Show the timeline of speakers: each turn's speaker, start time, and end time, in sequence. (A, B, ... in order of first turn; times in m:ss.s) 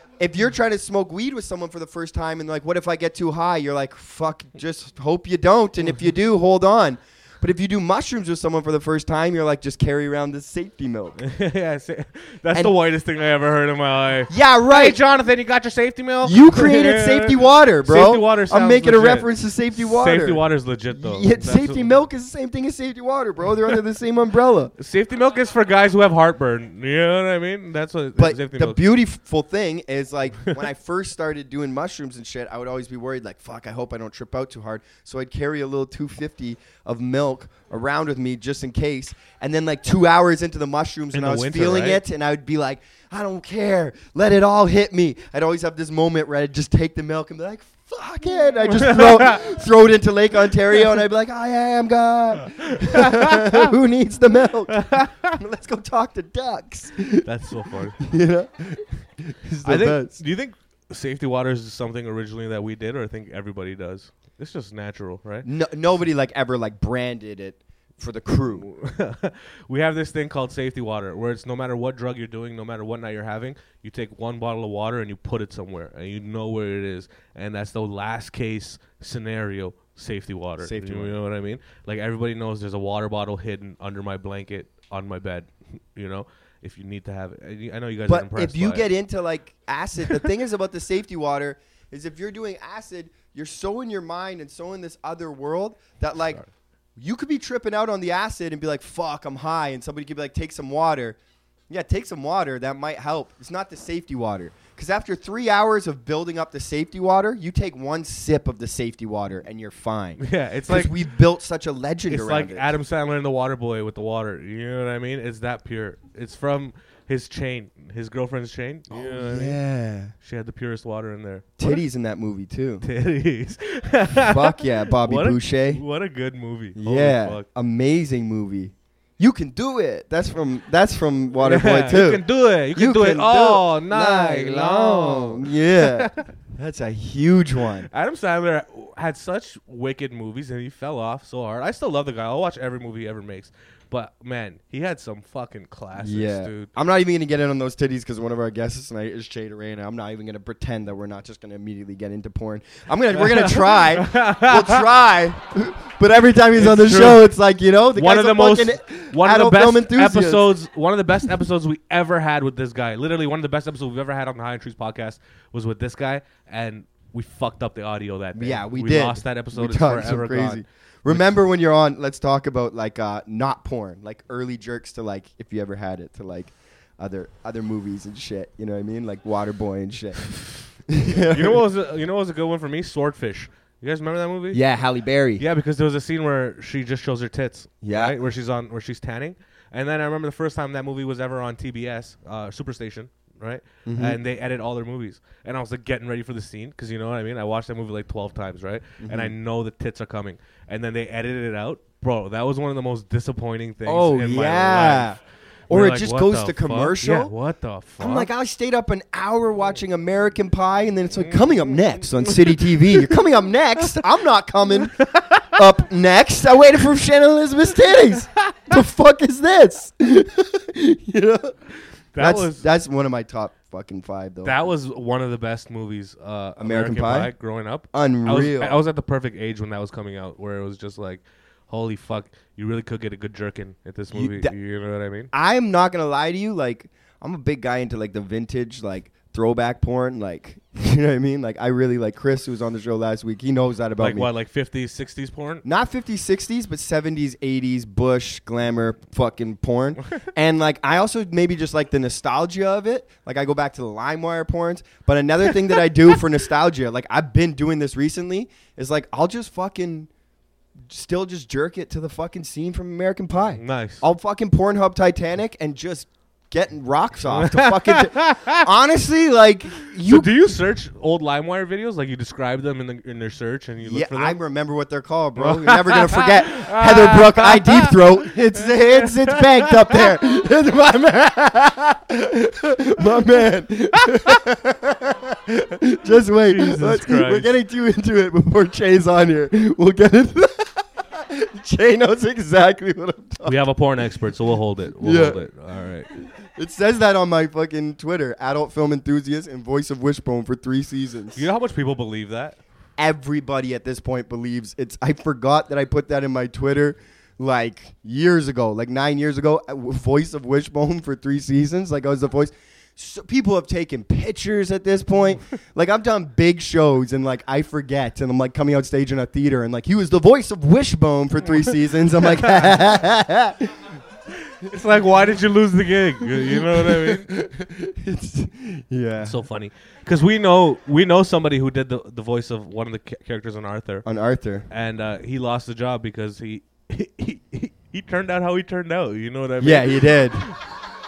0:00.2-0:11.2 A
0:11.2-0:21.9 B
0:14.3-0:15.0 A
0:16.2-0:24.7 A
0:24.8-0:28.8 B
0:28.2-0:57.2 A
0:41.1-0:42.0 B
0:48.7-0:49.4 B
0:52.6-0:53.7 B
0:54.7-0:55.3 B
0:57.2-0:58.0 B
0:58.0-1:00.2 A
0:59.6-1:05.5 B
1:05.4-1:08.7 A
1:08.4-1:28.9 B
1:20.6-1:21.2 A
1:28.1-1:36.4 A
1:37.0-1:41.2 A
1:41.7-1:52.7 A
1:50.2-1:51.0 B
1:52.1-1:59.6 B
1:58.9-2:00.1 A
2:00.2-2:01.8 B
2:01.6-2:02.9 A
2:02.8-2:07.5 B
2:04.2-2:05.8 A
2:06.8-2:12.2 A
2:11.4-2:16.3 B
2:12.8-2:17.9 A
2:17.9-2:26.7 B
2:26.0-2:40.6 A
2:33.2-2:34.8 B
2:36.5-2:37.3 B
2:38.0-2:51.3 B
2:48.3-3:01.6 A
3:01.3-3:04.6 B
3:04.5-3:05.4 A
3:05.4-3:25.2 B
3:07.8-3:08.2 A
3:13.9-3:14.2 A
3:19.0-3:19.3 A
3:23.8-3:25.2 A
3:25.7-3:27.3 A
3:25.7-3:28.3 B
3:28.0-3:41.6 A
3:31.2-3:33.0 B
3:35.0-3:35.5 B
3:42.1-3:42.7 B
3:42.2-3:44.7 A
3:44.4-3:55.3 B
3:46.6-3:47.3 A
3:47.9-3:48.8 A
3:54.1-3:54.5 A
3:55.3-4:04.3 A
4:04.0-4:05.6 B
4:05.6-4:20.1 A
4:20.9-4:30.3 A
4:23.6-4:24.0 B
4:27.3-4:28.7 B
4:29.9-4:34.4 B
4:33.8-4:53.6 A
4:35.4-4:38.0 B
4:38.6-4:40.1 B
4:46.5-4:47.5 B
4:53.4-4:56.1 B
4:55.0-4:55.4 A
4:56.2-5:01.5 A
5:01.4-5:02.6 B
5:03.0-5:23.9 A
5:22.4-5:22.7 B
5:24.6-5:27.3 B
5:26.2-5:29.4 A
5:29.2-5:34.1 B
5:34.0-5:34.7 A
5:34.7-5:40.5 B
5:39.6-5:40.5 A